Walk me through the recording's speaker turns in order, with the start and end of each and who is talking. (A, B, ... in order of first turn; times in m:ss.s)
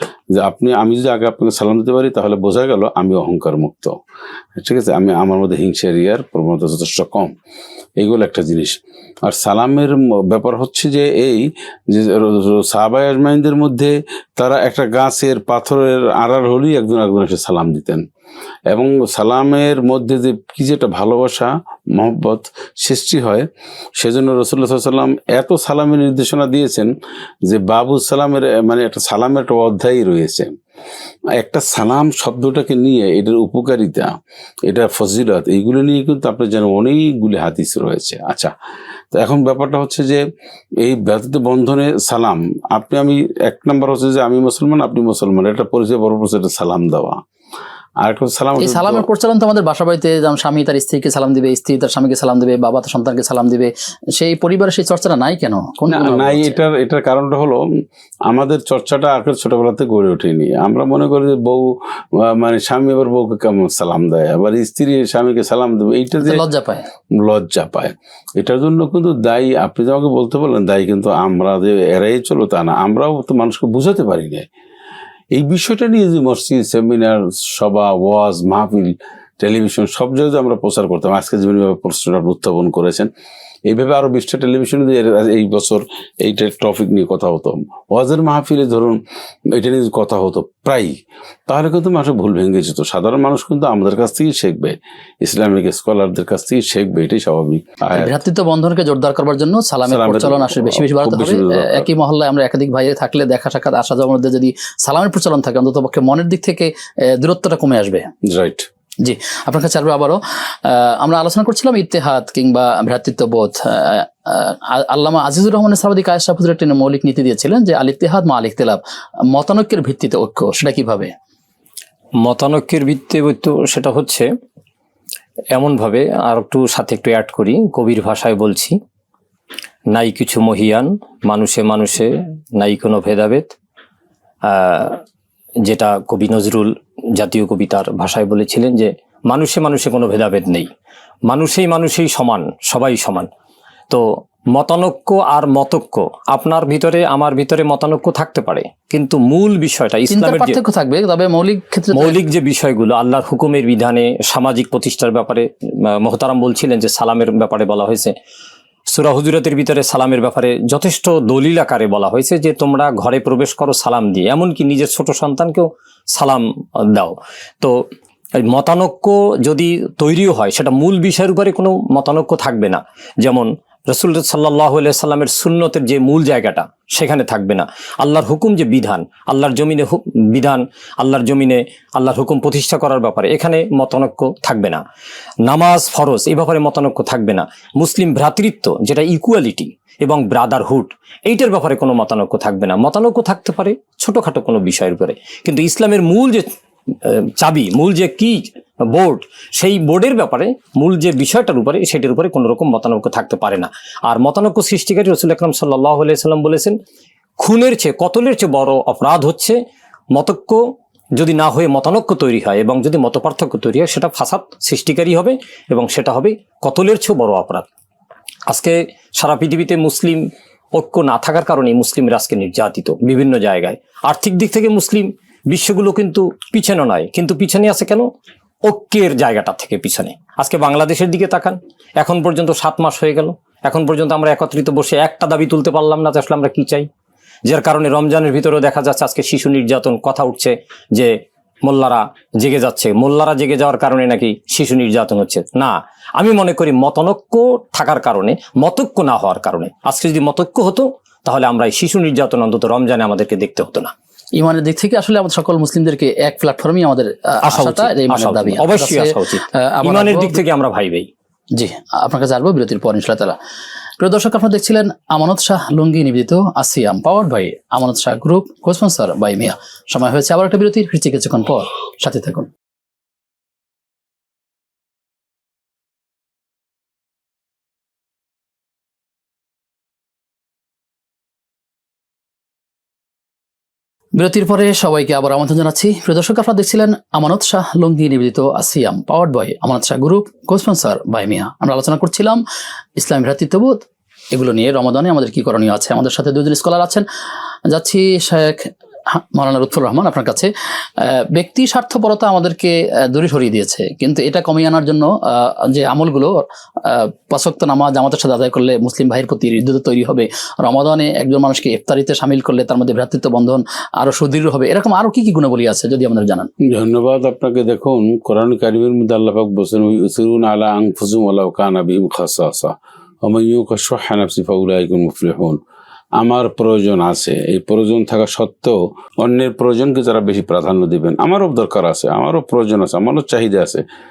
0:00.3-0:04.0 A
0:04.6-0:07.3 A
0:08.0-0:18.0 A
0:18.7-0:23.5 A
0:24.0-0:26.9 A
0:27.5-0:30.5 A
0:31.4-0:34.1 A
0:34.7-0:38.5 A
0:39.1-0:40.2 A
0:40.8-0:47.2 A
0:48.0-0:49.1 A
0:48.6-0:56.6 B
0:55.9-0:57.6 A
0:58.3-1:01.7 A
1:02.2-1:06.4 A
1:06.2-1:06.9 B
1:07.2-1:14.5 A
1:15.4-1:23.1 A
1:23.7-1:29.0 A
1:29.5-1:30.9 A
1:31.5-1:38.2 A
1:37.9-1:48.1 B
1:39.9-1:41.9 A
1:48.3-1:48.7 A
1:49.0-1:58.8 B
1:59.3-2:01.1 B
2:02.2-2:04.3 C
2:05.5-2:08.7 C
2:09.9-2:13.5 C
2:14.5-2:15.0 C
2:15.6-2:20.7 C
2:21.3-2:23.3 C
2:23.9-2:30.6 C
2:30.1-2:32.2 B
2:31.9-2:38.1 C
2:38.9-2:47.9 C
2:48.4-3:04.8 C
3:05.5-3:16.5 C
3:17.0-3:26.8 C
3:27.4-3:29.6 C
3:30.2-3:30.6 C
3:31.2-3:37.7 C
3:38.5-3:48.1 C
3:48.7-3:56.9 C
3:57.5-4:01.1 C
4:01.6-4:13.9 C
4:14.4-4:20.4 B
4:17.5-4:21.1 C
4:21.6-4:23.4 B
4:24.0-4:32.5 B
4:44.2-4:52.4 B
4:53.0-4:53.8 B
4:54.3-4:57.1 B
4:57.7-5:16.5 B
5:16.7-5:22.7 A
5:23.2-5:25.6 A
5:26.2-5:33.8 A